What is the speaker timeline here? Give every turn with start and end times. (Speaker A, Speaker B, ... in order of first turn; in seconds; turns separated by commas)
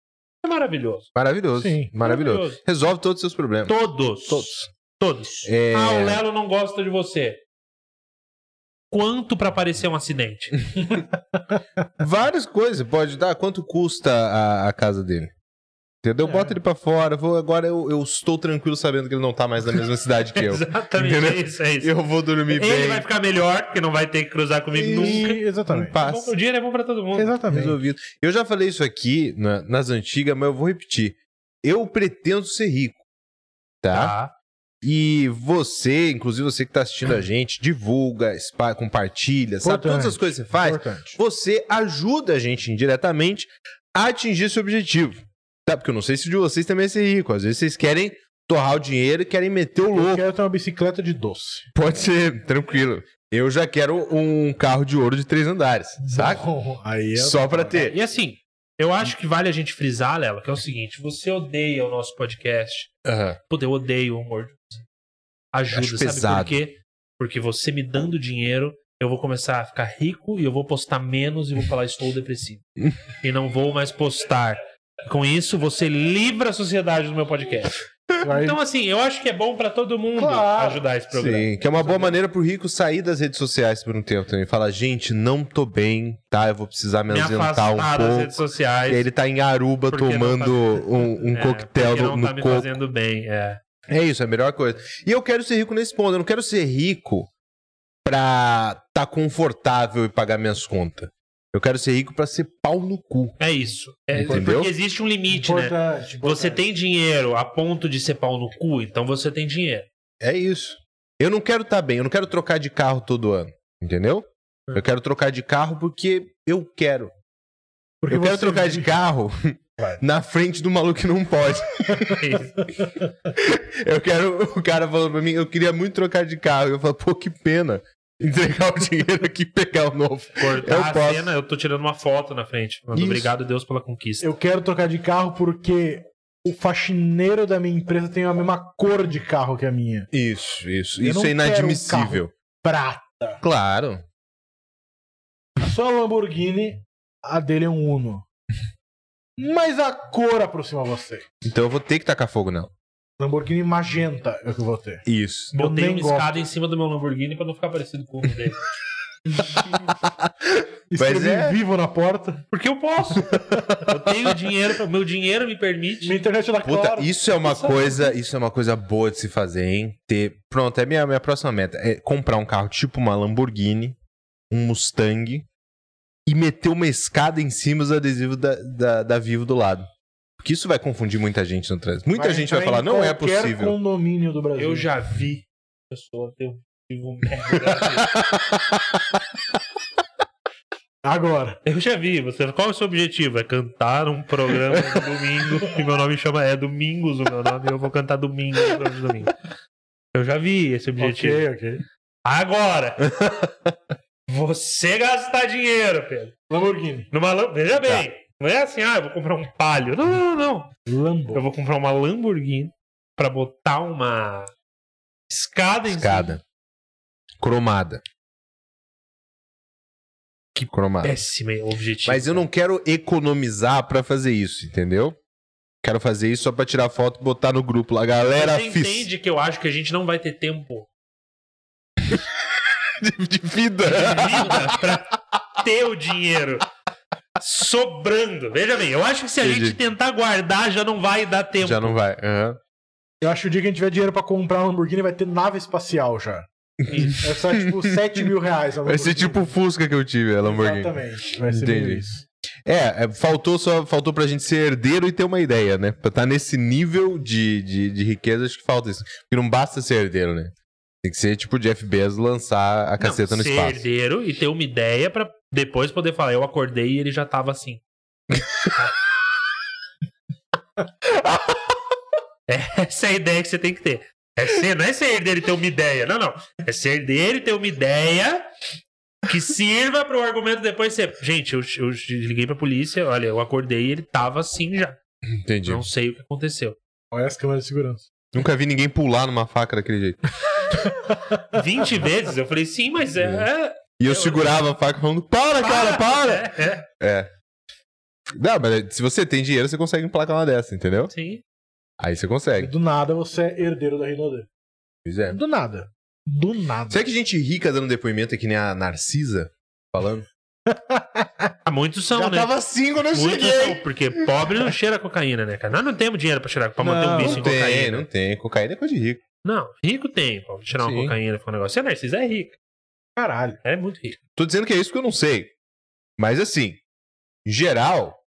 Speaker A: 0.4-1.1, Speaker B: 1.1-4.5, Speaker C: 1.6-1.9, Speaker A: 2.0-2.6, Speaker A: 3.7-7.4, Speaker B: 5.4-6.2, Speaker A: 8.9-11.0, Speaker B: 12.0-15.3, Speaker B: 16.0-23.1, Speaker A: 20.4-21.9, Speaker A: 22.5-25.4, Speaker B: 24.7-26.3, Speaker C: 24.9-25.9, Speaker A: 25.9-27.3, Speaker C: 27.1-27.8, Speaker B: 27.5-33.0, Speaker B: 33.8-34.1, Speaker A: 33.9-34.3, Speaker B: 34.8-50.2, Speaker C: 39.6-41.2, Speaker C: 49.9-51.7, Speaker B: 51.7-56.4, Speaker C: 56.0-57.8, Speaker B: 57.1-58.0, Speaker A: 57.8-62.9, Speaker B: 63.0-63.4, Speaker A: 63.5-64.8, Speaker A: 65.5-72.6, Speaker B: 65.7-66.6, Speaker A: 73.2-81.9, Speaker C: 78.2-78.6, Speaker C: 80.2-80.9, Speaker B: 81.1-92.7, Speaker C: 81.8-82.1, Speaker A: 87.1-89.1, Speaker A: 89.9-93.6, Speaker B: 93.9-97.3, Speaker B: 98.0-103.3, Speaker A: 103.4-109.9, Speaker B: 104.1-104.7, Speaker C: 104.3-104.5, Speaker C: 105.3-106.6, Speaker B: 110.2-117.1, Speaker C: 118.0-118.9, Speaker B: 118.1-122.2, Speaker A: 122.2-122.7, Speaker B: 123.3-131.3, Speaker A: 130.4-134.3, Speaker B: 132.9-133.3, Speaker C: 134.2-140.1, Speaker B: 140.1-142.3, Speaker C: 141.0-143.4, Speaker B: 143.4-144.0, Speaker C: 145.6-148.2, Speaker C: 149.4-151.2, Speaker B: 151.4-152.7, Speaker C: 153.2-156.4, Speaker B: 155.1-155.5, Speaker A: 155.5-158.6, Speaker B: 160.1-161.6, Speaker C: 160.9-162.4, Speaker A: 162.5-166.2, Speaker B: 163.2-164.3, Speaker C: 166.0-167.8, Speaker B: 166.6-174.0, Speaker B: 174.5-175.5, Speaker B: 176.2-179.9, Speaker B: 180.4-183.8, Speaker C: 182.1-184.9, Speaker A: 184.6-188.2, Speaker B: 188.2-189.0, Speaker C: 191.0-191.6, Speaker A: 191.6-199.4, Speaker A: 200.1-201.4, Speaker C: 201.0-201.8, Speaker A: 202.2-203.3, Speaker A: 204.3-206.3, Speaker C: 206.5-207.1, Speaker A: 207.1-210.7, Speaker C: 210.9-211.4, Speaker A: 211.3-214.5, Speaker A: 215.3-216.4, Speaker B: 215.9-216.4, Speaker B: 217.4-218.0, Speaker A: 220.6-222.4, Speaker B: 220.7-221.2, Speaker B: 222.0-225.2, Speaker B: 225.8-229.1, Speaker A: 228.3-230.9, Speaker B: 233.0-235.0, Speaker A: 233.8-236.7, Speaker A: 237.4-241.9, Speaker B: 239.4-239.8, Speaker B: 241.6-242.6, Speaker C: 243.2-246.5, Speaker B: 246.8-248.3, Speaker A: 246.9-247.2, Speaker C: 247.2-249.5, Speaker B: 248.8-252.0, Speaker C: 250.4-252.2, Speaker B: 252.7-263.8, Speaker A: 263.0-267.8, Speaker B: 271.1-271.7, Speaker A: 272.5-278.5, Speaker A: 279.2-285.0, Speaker B: 285.4-285.9, Speaker A: 285.6-286.8, Speaker C: 287.1-288.1, Speaker B: 288.3-290.2, Speaker A: 291.5-294.6, Speaker B: 293.2-293.5, Speaker B: 294.0-297.3, Speaker A: 295.6-296.8, Speaker B: 298.3-301.1, Speaker A: 301.1-301.4, Speaker B: 302.0-302.7, Speaker C: 302.6-304.5, Speaker B: 305.0-305.4, Speaker C: 305.3-307.0, Speaker B: 306.9-310.3, Speaker C: 310.7-311.5, Speaker A: 311.6-312.5, Speaker B: 312.1-314.4, Speaker A: 313.1-318.1, Speaker C: 316.8-317.5, Speaker B: 317.2-319.2, Speaker A: 319.4-322.6, Speaker B: 320.7-321.1, Speaker C: 323.2-323.6, Speaker A: 323.6-324.2, Speaker B: 324.4-325.5, Speaker B: 326.2-326.8, Speaker B: 327.4-328.2